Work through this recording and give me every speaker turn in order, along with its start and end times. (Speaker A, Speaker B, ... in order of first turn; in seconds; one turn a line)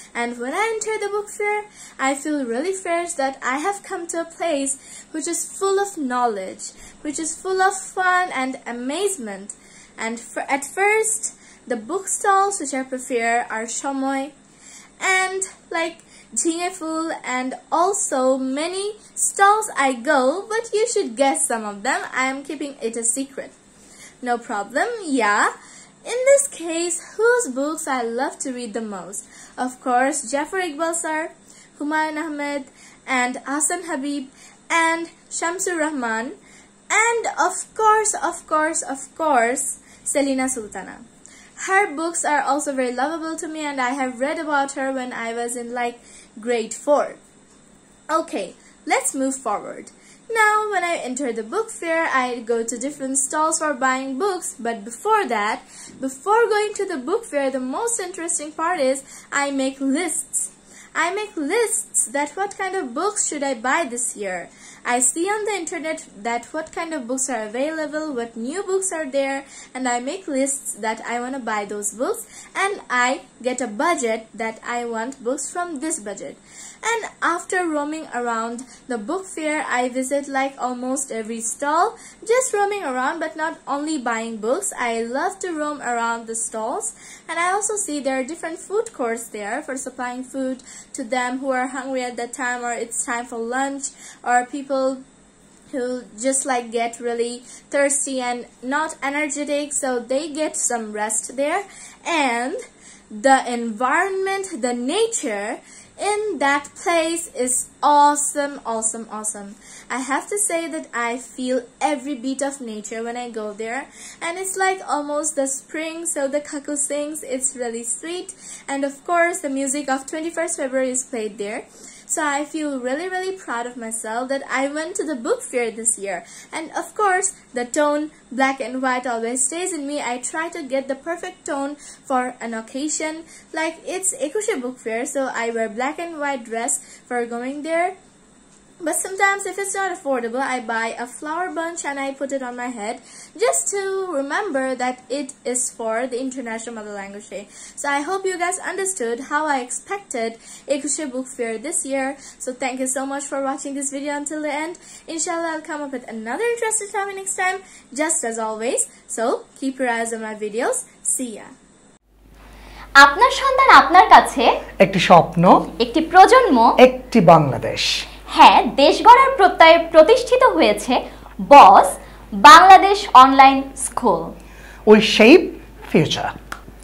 Speaker A: 0.1-14.3
Speaker A: 15.0-23.5
Speaker A: 24.2-25.5
Speaker A: 26.1-36.4
Speaker A: 36.9-41.0
Speaker A: 41.6-47.2
Speaker A: 48.1-95.0
Speaker A: 95.7-137.9
Speaker A: 138.8-161.5
Speaker B: 163.0-164.6
Speaker C: 164.8-165.7
Speaker B: 165.8-166.8
Speaker C: 166.8-168.1
Speaker B: 168.3-174.3
Speaker C: 174.9-176.3